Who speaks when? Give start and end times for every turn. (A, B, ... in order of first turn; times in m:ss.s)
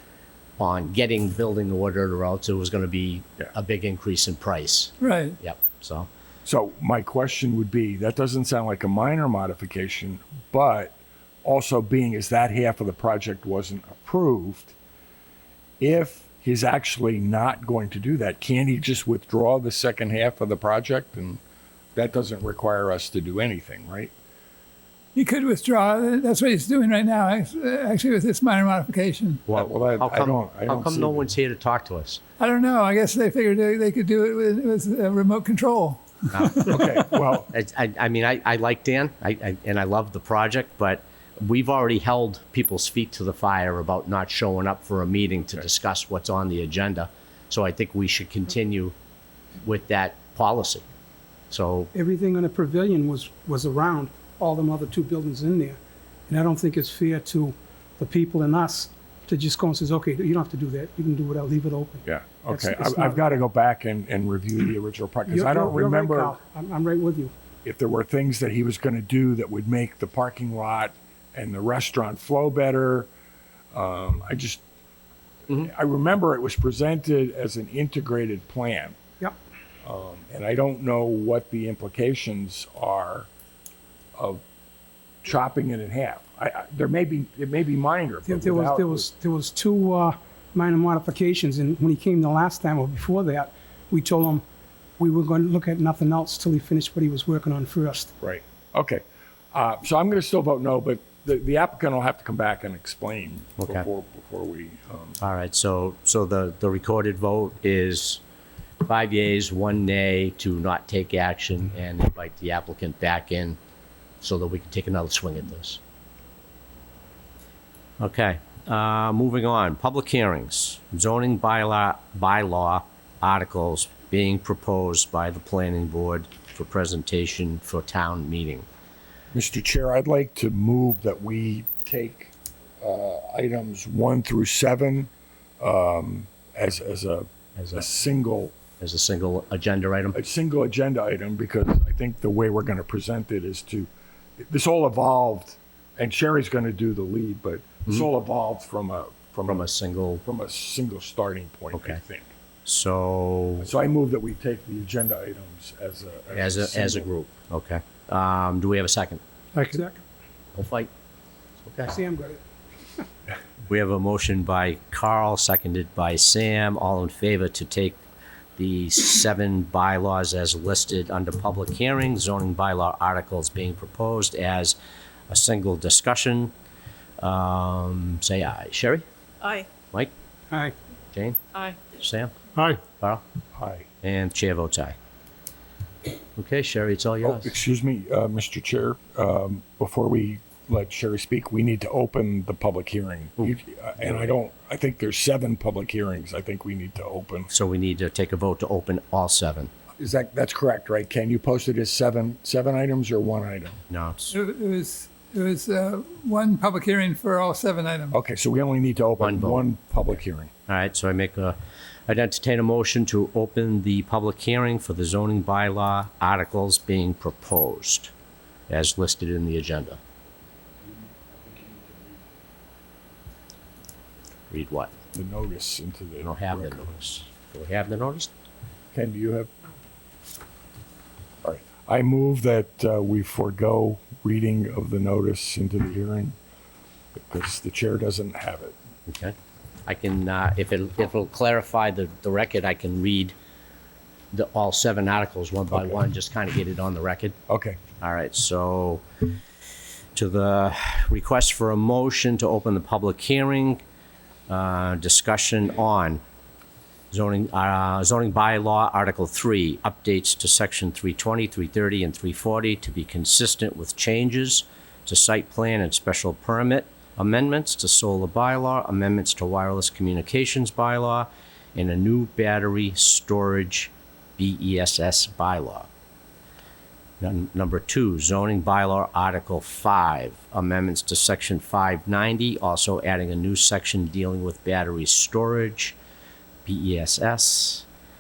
0:00.6-0:06.1 A
0:05.0-0:05.4 B
0:06.4-0:14.8 C
0:15.8-0:21.4 C
0:22.0-0:24.1 C
0:25.2-0:29.4 B
0:29.5-0:32.2 A
0:29.5-0:31.3 C
0:32.4-0:36.8 B
0:36.3-0:48.9 A
0:36.7-0:37.5 C
0:49.6-0:50.8 A
0:51.5-0:51.9 A
0:51.9-1:03.2 D
1:02.0-1:06.4 C
1:05.3-1:07.3 D
1:07.6-1:13.1 C
1:13.7-1:14.6 C
1:15.5-1:19.0 C
1:19.8-1:23.3 C
1:24.2-1:24.4 C
1:25.2-1:29.1 C
1:28.2-1:34.4 D
1:35.0-1:38.1 D
1:38.2-1:45.2 C
1:43.6-1:43.9 A
1:45.2-1:48.2 A
1:48.8-1:53.6 A
1:54.2-1:55.8 A
1:58.0-2:08.7 A
2:09.3-2:18.6 C
2:17.6-2:17.8 A
2:18.8-2:20.2 A
2:20.2-2:29.7 C
2:29.5-2:30.2 A
2:30.3-2:32.3 C
2:31.7-2:32.0 A
2:32.6-2:33.7 A
2:33.6-2:37.1 C
2:36.3-2:39.2 A
2:39.6-2:40.0 D
2:40.6-2:40.9 A
2:41.6-2:41.9 A
2:41.9-2:42.4 D
2:43.7-2:48.0 A
2:48.6-2:54.8 A
2:55.3-2:56.5 A
2:57.2-2:59.0 A
2:59.8-3:00.1 A
3:01.1-3:02.3 A
3:02.9-3:03.2 A
3:03.6-3:03.9 C
3:04.0-3:05.0 A
3:06.4-3:07.6 A
3:07.2-3:17.5 C
3:17.5-3:19.7 A
3:20.0-3:23.8 C
3:23.9-3:24.3 A
3:24.3-3:28.2 B
3:28.1-3:30.5 C
3:29.2-3:29.7 A
3:30.7-3:38.1 A
3:38.7-3:40.0 A
3:40.9-3:42.2 C
3:44.5-3:44.9 A
3:45.1-3:46.8 C
3:46.2-3:48.3 A
3:48.9-3:49.5 C
3:51.4-3:56.4 C
3:57.2-3:58.8 C
3:59.1-3:59.4 A
3:59.9-4:03.4 A
4:04.3-4:07.4 A
4:05.7-4:06.0 C
4:07.5-4:07.8 C
4:08.0-4:09.3 A
4:10.2-4:13.8 A
4:14.5-4:16.2 A
4:17.1-4:35.9 A
4:37.2-4:46.0 A
4:46.6-4:47.8 A